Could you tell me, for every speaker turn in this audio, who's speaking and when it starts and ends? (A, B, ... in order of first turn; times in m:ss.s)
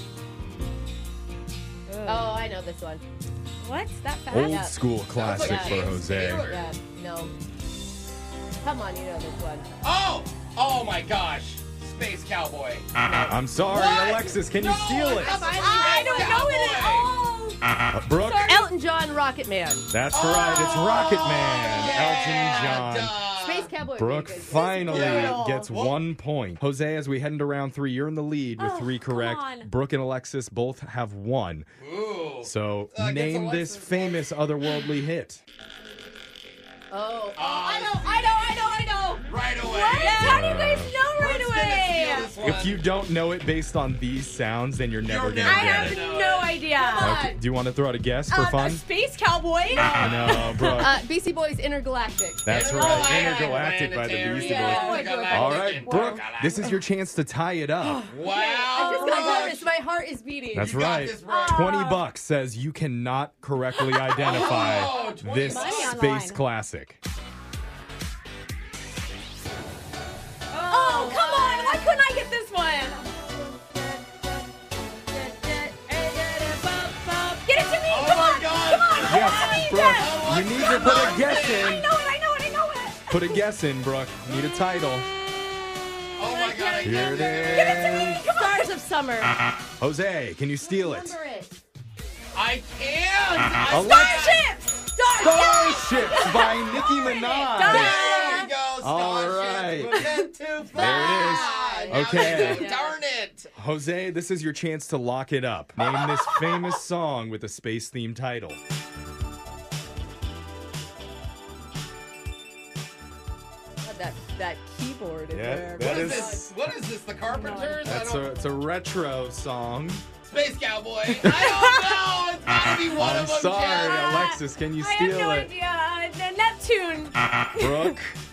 0:01.9-0:02.3 A
0:02.0-0:03.0 B
0:03.6-0:04.7 A
0:04.3-0:06.5 C
0:04.4-0:07.3 B
0:05.1-0:06.7 D
0:08.6-0:09.7 B
0:09.8-0:12.9 D
0:13.0-0:13.5 B
0:13.2-0:15.4 C
0:13.7-0:17.1 D
0:15.1-0:16.5 B
0:15.3-0:17.6 A
0:17.9-0:18.7 C
0:18.2-0:19.9 B
0:19.9-0:23.1 C
0:20.1-0:23.7 D
0:23.4-0:25.7 B
0:23.9-0:31.7 C
0:24.8-0:26.0 D
0:28.6-0:29.7 A
0:31.8-0:34.3 D
0:32.4-0:35.4 C
0:36.9-0:39.2 B
0:37.3-0:38.3 D
0:39.3-0:40.4 D
0:39.6-0:42.3 A
0:40.2-0:40.9 C
0:41.1-0:42.8 D
0:42.4-0:46.0 C
0:45.0-0:46.6 D
0:45.4-0:47.2 A
0:46.7-0:47.4 B
0:47.0-0:48.8 C
0:48.3-0:50.9 A
0:49.7-0:53.6 B
0:49.9-0:51.0 C
0:52.4-0:58.1 C
0:52.5-0:56.7 D
0:54.1-0:56.0 B
0:54.5-0:56.7 A
0:57.8-0:59.7 A
0:58.1-0:59.5 D
0:58.2-1:00.7 B
1:00.5-1:07.0 C
1:00.6-1:01.9 D
1:01.3-1:02.0 A
1:04.1-1:06.0 D
1:04.3-1:04.5 B
1:04.8-1:06.4 A
1:10.5-1:11.8 B
1:10.7-1:13.1 A
1:13.1-1:14.4 B
1:15.1-1:17.5 B
1:17.4-1:23.3 A
1:17.9-1:21.8 D
1:19.0-1:21.9 C
1:19.2-1:19.8 B
1:23.1-1:25.1 C
1:25.7-1:28.7 A
1:26.2-1:28.1 D
1:26.8-1:28.2 C
1:27.5-1:29.4 B
1:29.8-1:31.2 C
1:30.6-1:31.6 B
1:32.3-1:34.4 D
1:33.6-1:38.5 A
1:33.7-1:34.3 C
1:35.0-1:38.5 B
1:35.2-1:38.0 C
1:37.6-1:43.5 D
1:38.8-1:40.0 C
1:39.9-1:40.2 A
1:40.7-1:43.0 B
1:40.7-1:42.7 C
1:43.5-1:48.6 C
1:53.8-1:56.5 B
1:55.3-1:56.4 C
1:55.8-1:58.3 D
1:57.3-1:57.8 B
1:57.4-1:57.7 A
1:57.8-2:00.0 C
2:00.2-2:04.0 D
2:01.2-2:01.5 C
2:02.9-2:05.5 C
2:03.6-2:08.0 A
2:07.6-2:08.2 C